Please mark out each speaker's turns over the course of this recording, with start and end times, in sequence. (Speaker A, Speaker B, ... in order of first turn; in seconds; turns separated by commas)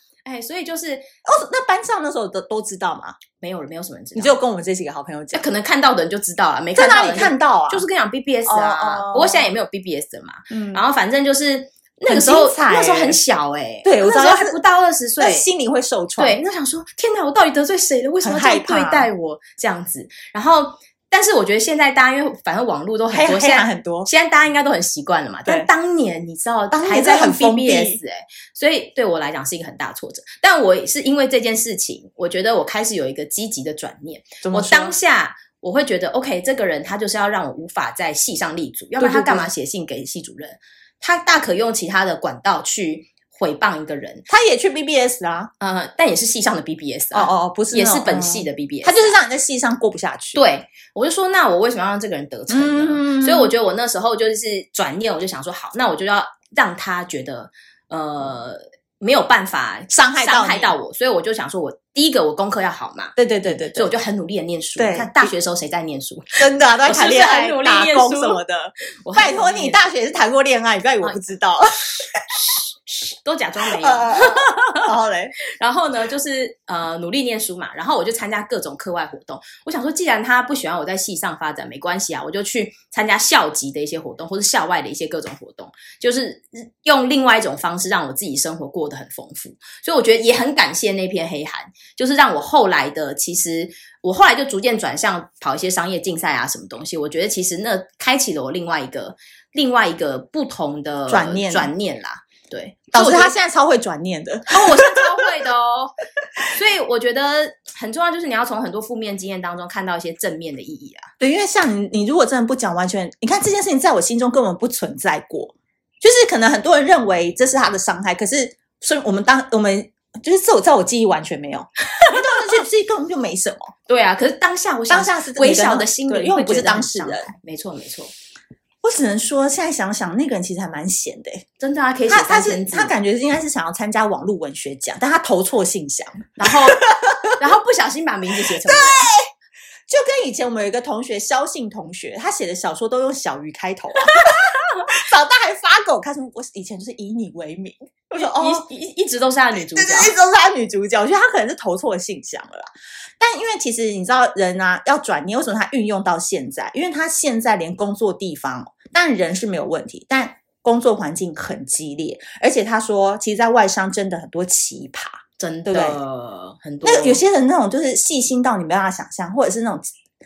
Speaker A: 0.2-1.1, Speaker B: 1.2-3.2, Speaker A: 3.4-4.4, Speaker B: 4.2-5.4, Speaker A: 5.3-15.4, Speaker B: 6.7-7.8, Speaker B: 8.5-9.4, Speaker B: 10.5-10.8, Speaker B: 12.1-13.2, Speaker B: 13.8-14.6, Speaker B: 15.2-16.4, Speaker A: 16.2-44.2, Speaker B: 18.2-19.1, Speaker B: 23.1-24.1, Speaker B: 26.7-28.0, Speaker B: 34.4-34.9, Speaker B: 39.0-39.5, Speaker B: 44.3-45.5, Speaker A: 45.6-49.1, Speaker B: 47.1-50.4, Speaker A: 50.3-63.1, Speaker B: 52.5-53.5, Speaker B: 59.9-60.7, Speaker B: 63.1-63.9, Speaker A: 63.7-68.4, Speaker B: 64.8-65.3, Speaker B: 66.4-72.2, Speaker A: 69.0-69.8, Speaker A: 72.4-74.9, Speaker B: 73.8-75.3, Speaker A: 75.6-103.3, Speaker B: 101.1-101.7, Speaker B: 102.9-105.1, Speaker A: 104.5-105.9, Speaker A: 106.5-111.1, Speaker B: 111.2-123.7, Speaker A: 122.0-122.3, Speaker A: 123.9-128.1, Speaker B: 124.9-127.3, Speaker B: 128.8-131.4, Speaker A: 131.6-132.9, Speaker B: 132.1-137.4, Speaker A: 136.4-139.1, Speaker B: 138.4-139.3, Speaker B: 139.9-148.6, Speaker A: 144.2-144.8, Speaker A: 148.1-150.1, Speaker B: 149.5-166.0, Speaker A: 165.4-167.2, Speaker B: 166.8-169.9